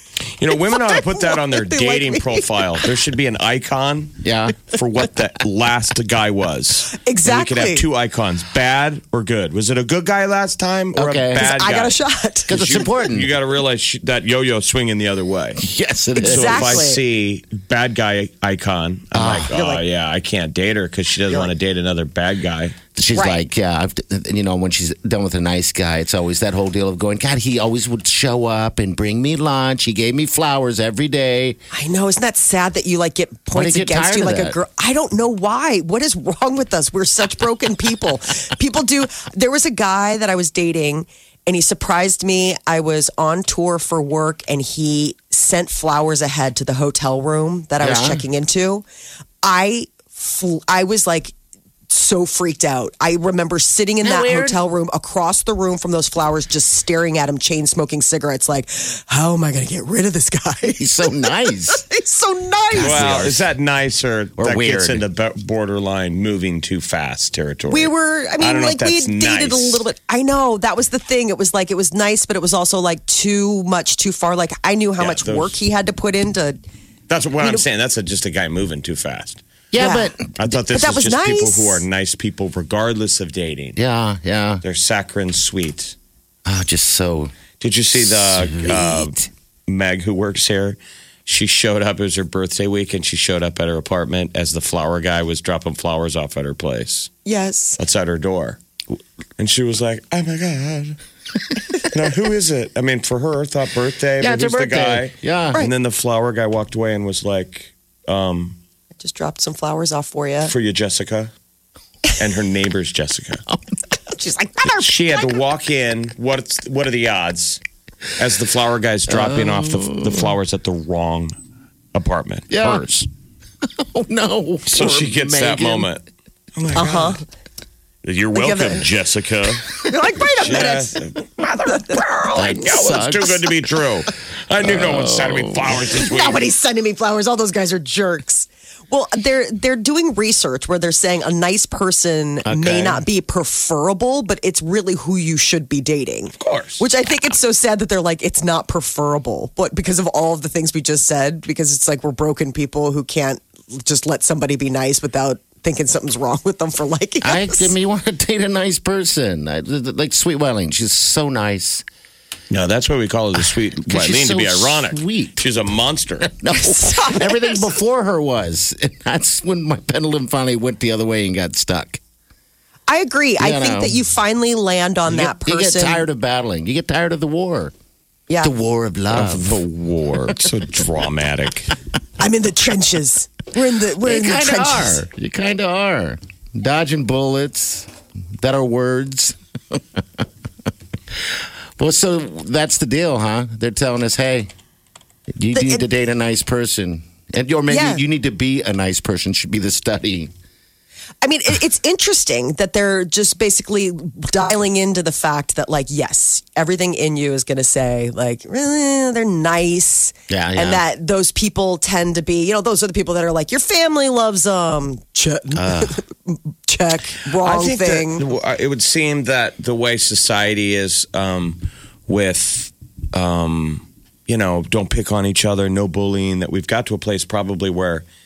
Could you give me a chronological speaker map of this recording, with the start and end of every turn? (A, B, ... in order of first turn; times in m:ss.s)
0:00.4-0:12.0 A
0:00.5-0:02.5 B
0:04.2-0:04.6 C
0:07.0-0:07.8 B
0:11.0-0:11.5 C
0:11.4-0:12.9 B
0:12.5-0:13.3 C
0:12.5-0:15.6 A
0:15.6-0:16.9 C
0:16.2-0:17.0 B
0:16.2-0:22.8 A
0:19.1-0:19.8 C
0:23.0-0:31.6 C
0:23.1-0:23.4 B
0:31.7-0:48.9 B
0:33.5-0:34.6 C
0:47.8-0:48.2 C
0:49.4-0:51.3 B
0:51.9-1:03.2 B
0:54.0-0:54.6 C
1:00.8-1:01.8 C
1:02.7-1:03.5 C
1:02.8-1:09.8 A
1:04.4-1:05.0 C
1:07.7-1:16.6 B
1:15.0-1:15.6 A
1:17.1-1:19.4 A
1:19.7-1:20.3 C
1:19.8-1:21.8 B
1:20.4-1:23.8 A
1:23.8-1:24.6 C
1:24.6-1:26.0 A
1:26.5-1:27.3 C
1:27.6-1:37.1 A
1:28.0-1:29.1 C
1:37.2-1:37.8 B
1:37.8-1:38.6 A
1:39.4-1:41.0 A
1:41.7-1:48.6 A
1:44.2-1:45.6 C
1:49.0-1:50.5 B
1:50.4-1:51.3 A
1:52.2-1:53.4 A
1:54.1-1:55.4 B
1:54.7-1:57.6 A
1:58.2-2:01.3 A
1:59.1-2:00.4 C
2:01.9-2:03.1 A
2:02.5-2:02.9 C
2:03.7-2:05.9 C
2:04.7-2:06.0 A
2:06.6-2:07.2 A
2:06.7-2:07.2 B
2:08.0-2:09.7 A
2:08.3-2:08.8 B
2:09.8-2:11.0 B
2:10.4-2:16.4 A
2:12.4-2:13.8 C
2:14.6-2:15.8 C
2:15.8-2:37.7 B
2:22.4-2:23.0 C
2:26.4-2:26.8 A
2:37.2-2:41.8 C
2:42.5-2:46.3 A
2:43.9-2:45.5 C
2:46.2-2:52.0 C
2:46.6-2:47.7 B
2:52.9-2:56.1 B
2:53.4-2:54.0 C
2:55.1-2:57.7 C
2:58.4-2:59.6 C
2:59.1-3:01.7 A
3:02.2-3:05.0 B
3:04.0-3:10.2 C
3:11.1-3:14.5 C
3:15.3-3:20.3 C
3:15.5-3:15.8 B
3:17.7-3:18.0 B
3:21.2-3:38.2 B
3:30.3-3:30.8 C
3:35.5-3:36.0 C
3:37.4-3:48.0 A